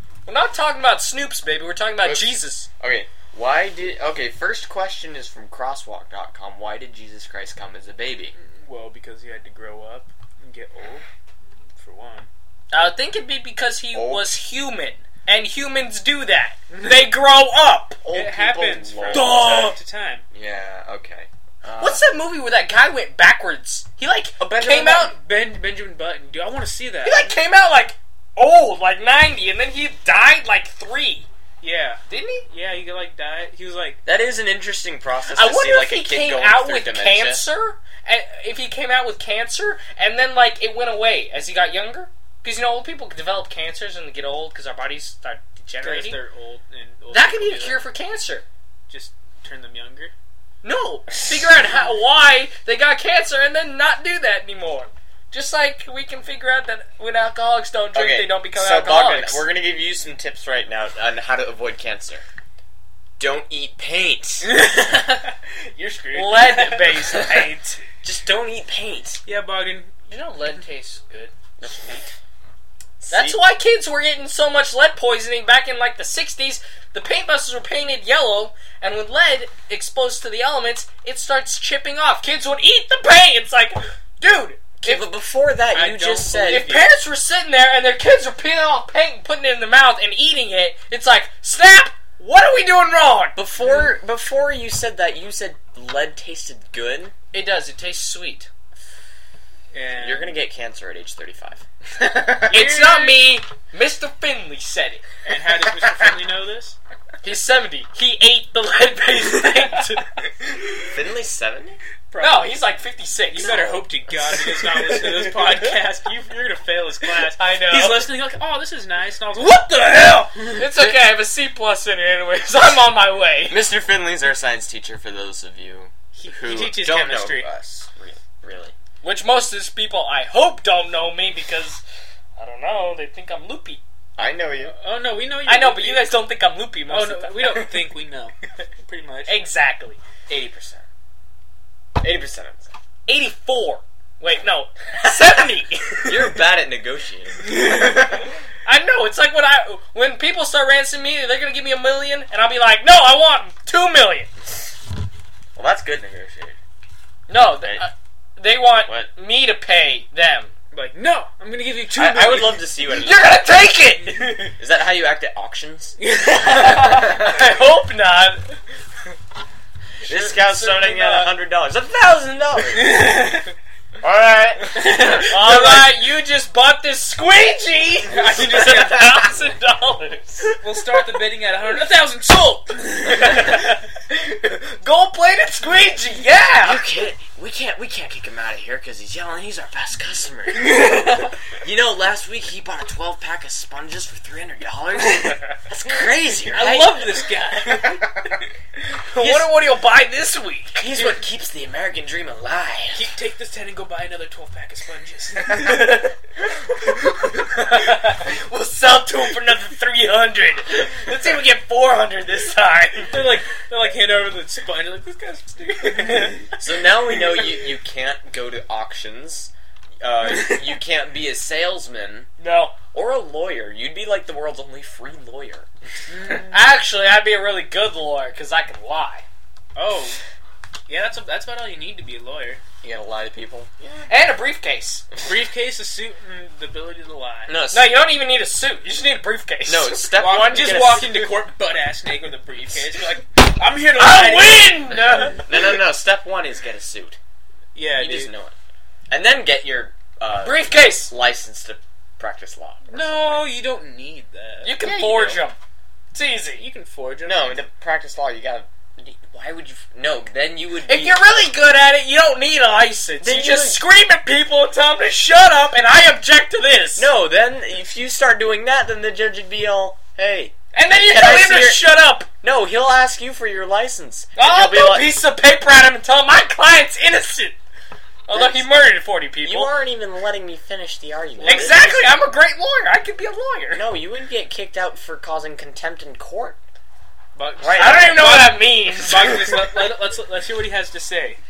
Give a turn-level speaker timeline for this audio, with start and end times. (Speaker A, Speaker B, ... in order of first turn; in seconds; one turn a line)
Speaker A: 0.2-2.7
Speaker B: 2.0-8.3
Speaker C: 8.4-11.1
Speaker C: 11.8-12.3
Speaker A: 12.7-18.0
Speaker B: 13.9-14.3
Speaker B: 18.0-19.7
Speaker C: 18.1-20.2
Speaker A: 19.1-19.8
Speaker B: 20.3-22.1
Speaker A: 21.8-25.1
Speaker B: 24.4-25.1
Speaker C: 25.1-27.4
Speaker A: 27.0-31.3
Speaker C: 31.6-34.0
Speaker A: 32.1-32.5
Speaker B: 34.0-37.4
Speaker A: 35.3-46.2
Speaker C: 45.8-47.8
Speaker A: 47.1-48.4
Speaker C: 48.9-50.1
Speaker A: 50.6-59.4
Speaker B: 51.2-51.6
Speaker B: 57.9-62.2
Speaker B: 63.2-64.5
Speaker C: 64.4-67.2
Speaker A: 66.1-67.8
Speaker B: 68.0-69.2
Speaker C: 69.2-70.1
Speaker A: 70.1-71.3
Speaker B: 71.6-72.1
Speaker B: 73.0-73.4
Speaker A: 73.1-85.0
Speaker B: 84.8-86.7
Speaker C: 85.7-86.9
Speaker A: 86.5-93.4
Speaker B: 93.3-97.1
Speaker C: 93.6-93.9
Speaker A: 97.3-98.5
Speaker C: 99.7-100.3
Speaker B: 99.9-102.7
Speaker A: 102.5-105.0
Speaker C: 102.6-103.2
Speaker C: 105.2-106.8
Speaker A: 107.2-110.5
Speaker C: 109.3-109.8
Speaker B: 110.9-111.8
Speaker C: 112.1-112.6
Speaker A: 112.2-115.8
Speaker C: 113.3-120.6
Speaker B: 113.4-113.8
Speaker A: 117.1-118.1
Speaker A: 119.4-123.7
Speaker B: 123.5-128.7
Speaker C: 126.1-127.5
Speaker A: 129.0-131.8
Speaker A: 132.3-133.8
Speaker B: 134.2-134.8
Speaker C: 134.6-136.2
Speaker A: 135.4-137.9
Speaker C: 136.9-139.4
Speaker A: 139.3-140.0
Speaker B: 140.3-140.8
Speaker B: 142.0-142.7
Speaker A: 143.1-146.4
Speaker B: 145.0-145.4
Speaker B: 146.1-147.9
Speaker A: 147.5-154.3
Speaker B: 155.6-156.6
Speaker A: 157.3-160.5
Speaker B: 157.5-157.8
Speaker B: 158.8-159.1
Speaker C: 160.7-162.7
Speaker B: 161.9-163.3
Speaker A: 162.8-164.6
Speaker B: 164.5-166.0
Speaker C: 166.0-166.8
Speaker A: 166.3-168.6
Speaker B: 166.8-167.3
Speaker B: 170.0-173.2
Speaker A: 170.0-171.3
Speaker C: 172.7-173.5
Speaker B: 174.0-175.9
Speaker C: 174.8-175.9
Speaker A: 174.9-181.2
Speaker C: 178.1-179.0
Speaker B: 178.7-179.0
Speaker C: 180.6-183.6
Speaker A: 183.0-186.8
Speaker B: 186.6-190.9
Speaker B: 191.5-197.0
Speaker A: 195.1-195.4
Speaker A: 196.4-197.9
Speaker C: 196.5-197.9
Speaker A: 199.1-201.1
Speaker C: 199.2-199.5
Speaker B: 200.8-203.1
Speaker C: 202.9-205.8
Speaker A: 205.4-206.1
Speaker A: 206.8-213.3
Speaker C: 213.1-216.5
Speaker A: 215.7-216.4
Speaker B: 216.5-222.3
Speaker A: 222.4-222.8
Speaker B: 222.9-225.7
Speaker C: 226.1-226.6
Speaker A: 226.5-229.2
Speaker C: 229.7-230.2
Speaker C: 230.9-232.6
Speaker B: 232.8-234.1
Speaker A: 234.1-235.1
Speaker C: 235.2-237.6
Speaker B: 237.5-237.9
Speaker A: 237.7-241.3
Speaker B: 239.7-241.1
Speaker C: 240.2-245.0
Speaker A: 243.9-245.5
Speaker B: 245.4-247.2
Speaker C: 247.7-248.3
Speaker B: 247.9-248.5
Speaker B: 249.1-253.5
Speaker A: 250.4-251.1
Speaker C: 252.9-254.8
Speaker A: 254.6-255.6
Speaker B: 254.8-255.5
Speaker A: 256.1-256.7
Speaker C: 256.6-257.6
Speaker B: 257.2-261.4
Speaker A: 260.8-267.1
Speaker B: 263.2-263.8
Speaker B: 266.9-271.8
Speaker A: 270.7-272.3
Speaker B: 272.4-275.1
Speaker A: 274.4-277.6
Speaker A: 278.2-279.7
Speaker B: 278.3-278.7
Speaker B: 279.4-281.9
Speaker C: 281.4-282.1
Speaker A: 281.4-283.8
Speaker B: 283.7-286.6
Speaker C: 287.3-291.4
Speaker B: 287.6-288.3
Speaker A: 287.7-290.0